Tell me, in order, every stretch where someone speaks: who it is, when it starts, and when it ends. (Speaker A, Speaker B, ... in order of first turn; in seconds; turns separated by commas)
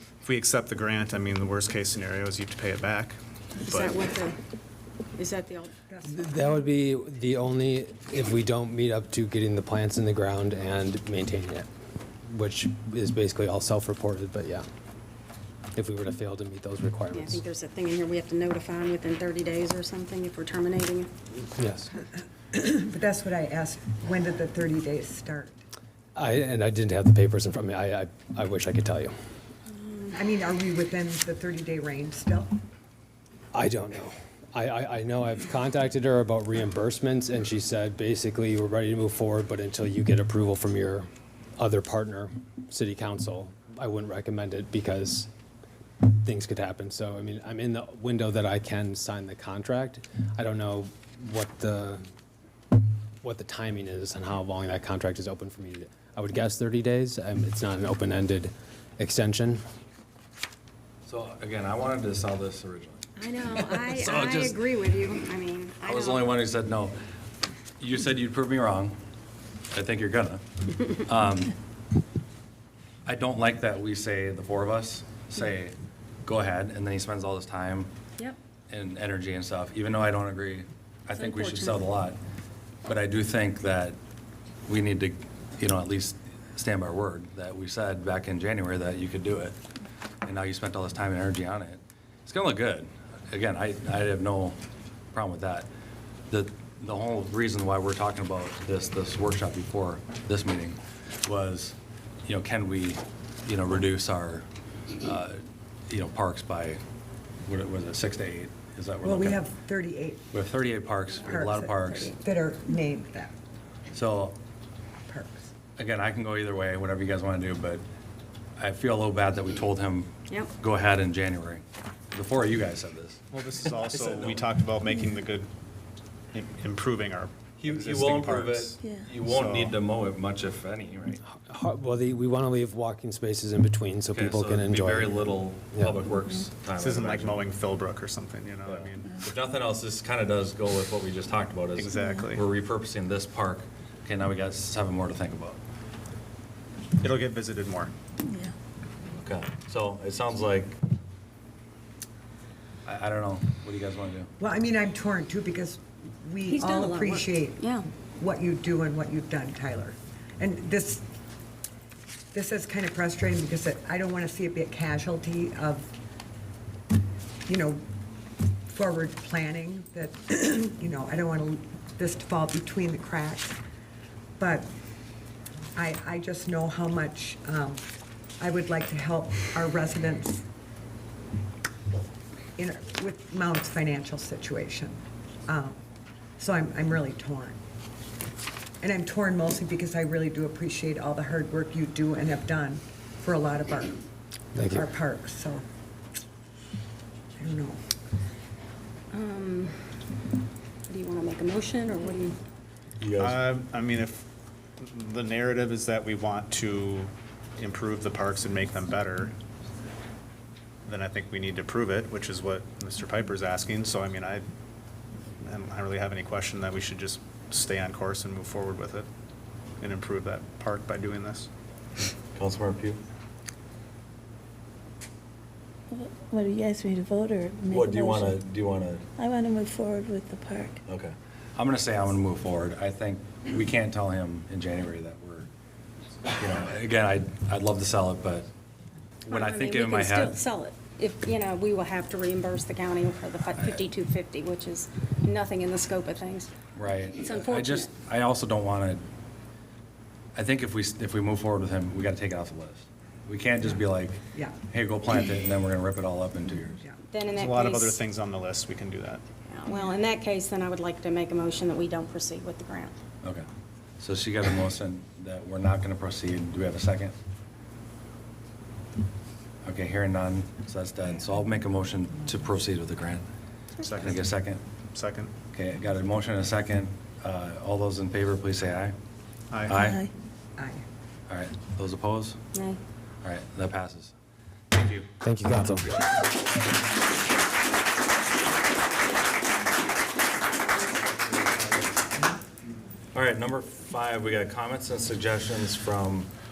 Speaker A: 0.2-4.0, Speaker B: 3.7-4.4, Speaker B: 5.2-5.7, Speaker C: 5.9-6.2, Speaker D: 6.1-11.7, Speaker D: 12.3-14.7, Speaker D: 15.8-17.4, Speaker B: 17.1-21.1, Speaker D: 21.6-22.0, Speaker C: 22.5-25.5, Speaker D: 26.2-29.1, Speaker B: 29.7-30.2, Speaker C: 30.1-32.5, Speaker D: 33.5-45.3, Speaker D: 46.1-52.0, Speaker D: 53.2-59.6, Speaker E: 61.1-64.6, Speaker B: 63.2-66.3, Speaker E: 65.8-67.0, Speaker E: 67.8-69.0, Speaker E: 69.7-70.4, Speaker E: 71.0-71.5, Speaker E: 73.0-77.9, Speaker E: 78.7-82.2, Speaker B: 81.2-81.9, Speaker E: 82.9-84.0, Speaker E: 84.7-89.6, Speaker E: 90.3-94.6, Speaker E: 95.1-95.7, Speaker E: 96.3-104.5, Speaker E: 105.0-106.8, Speaker E: 107.5-109.4, Speaker C: 109.0-110.3, Speaker E: 110.3-112.2, Speaker C: 111.2-113.3, Speaker E: 113.9-114.4, Speaker C: 115.1-115.5, Speaker E: 115.8-117.8, Speaker E: 118.6-124.5, Speaker A: 123.3-125.5, Speaker A: 126.3-129.8, Speaker E: 127.6-131.2, Speaker F: 128.8-129.2, Speaker D: 131.3-136.0, Speaker E: 134.1-137.4, Speaker A: 136.8-139.2, Speaker E: 138.7-145.6, Speaker A: 141.8-142.4, Speaker F: 142.0-142.3, Speaker A: 147.0-147.9, Speaker E: 149.2-150.8, Speaker E: 152.9-154.3, Speaker C: 154.4-161.0, Speaker B: 156.5-157.9, Speaker C: 162.3-165.9, Speaker C: 167.5-167.8, Speaker C: 168.7-173.6, Speaker C: 174.4-174.7, Speaker C: 175.8-177.8, Speaker C: 178.4-180.4, Speaker C: 182.6-185.8, Speaker C: 186.4-187.6, Speaker C: 188.8-194.0, Speaker D: 194.6-194.9, Speaker C: 194.7-195.6, Speaker C: 197.4-197.8, Speaker B: 199.1-199.8, Speaker B: 200.9-202.4, Speaker E: 203.0-203.4, Speaker A: 203.2-204.3, Speaker A: 204.8-209.4, Speaker A: 210.8-214.5, Speaker A: 215.4-219.1, Speaker A: 219.8-221.5, Speaker E: 222.3-223.0, Speaker F: 225.9-228.4, Speaker E: 227.7-229.1, Speaker F: 229.2-230.8, Speaker E: 230.9-235.5, Speaker E: 236.4-238.5, Speaker E: 239.2-240.4, Speaker B: 239.3-246.5, Speaker E: 246.8-249.0, Speaker B: 247.2-247.9, Speaker E: 250.3-256.8, Speaker B: 257.1-258.0, Speaker A: 257.3-259.2, Speaker B: 259.5-263.0, Speaker E: 264.0-267.1, Speaker E: 269.6-273.3, Speaker A: 273.8-274.2, Speaker E: 274.0-274.6, Speaker A: 274.9-275.3, Speaker E: 275.5-278.9, Speaker A: 279.5-279.8, Speaker E: 279.7-280.1, Speaker F: 279.8-280.1, Speaker C: 280.6-280.8, Speaker E: 281.3-282.4, Speaker B: 282.5-282.8, Speaker E: 283.2-284.1, Speaker E: 284.7-285.1, Speaker D: 285.2-285.9, Speaker E: 291.3-291.8, Speaker E: 293.1-296.3